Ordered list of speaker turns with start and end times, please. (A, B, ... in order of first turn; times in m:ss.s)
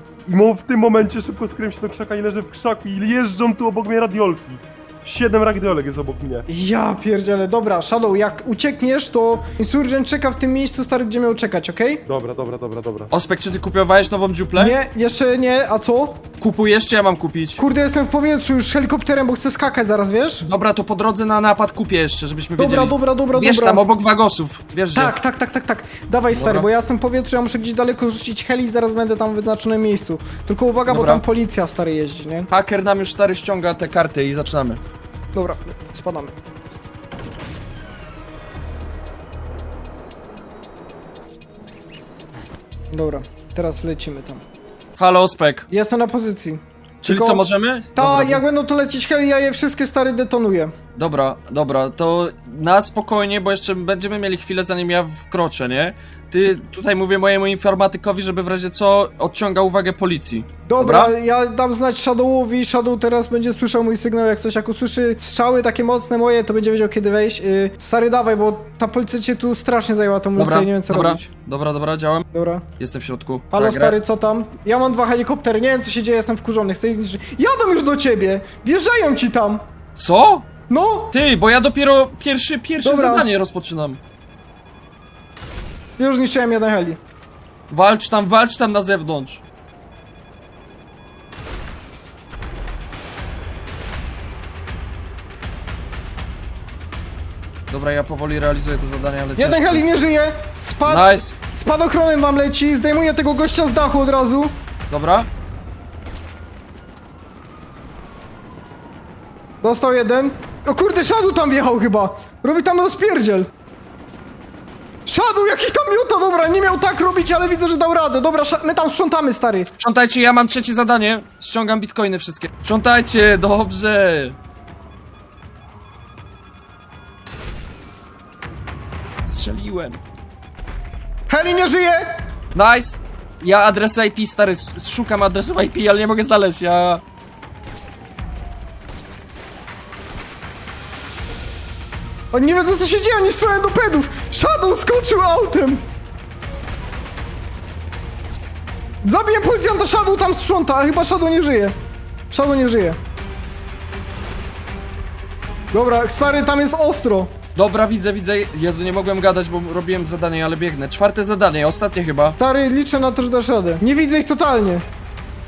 0:00.3-0:06.5 A
0:06.5-0:12.0 B
0:12.1-0:13.1 A
0:13.1-0:14.8 C
0:14.6-0:16.2 B
0:16.4-0:17.6 C
0:17.6-0:20.5 B
0:20.5-0:25.2 C
0:22.6-0:23.8 B
0:24.9-0:32.5 B
0:26.3-0:26.7 C
0:30.9-0:31.2 C
0:32.5-0:34.8 C
0:35.3-0:36.3 B
0:42.9-0:44.4 B
0:45.0-0:45.7 C
0:45.7-0:50.7 B
0:47.0-0:48.4 C
0:51.0-1:01.1 C
1:00.7-1:11.3 B
1:10.4-1:12.3 C
1:12.3-1:12.6 B
1:12.8-1:14.0 C
1:13.5-1:19.6 B
1:20.0-1:20.5 C
1:20.7-1:21.1 B
1:21.1-1:24.0 C
1:22.8-1:23.3 B
1:26.0-1:27.0 B
1:27.7-1:29.4 C
1:37.7-1:39.8 C
1:39.4-1:44.6 B
1:40.9-1:41.4 C
1:44.9-1:45.3 C
1:49.6-1:53.5 B
1:55.1-1:59.7 B
1:59.8-2:04.4 C
2:09.2-2:10.0 C
2:11.3-2:12.1 B
2:12.5-2:17.0 C
2:22.3-2:25.8 B
2:29.0-2:31.8 B
2:32.3-2:33.0 B
2:35.7-2:37.3 B
2:37.6-2:42.4 C
2:42.4-2:44.8 B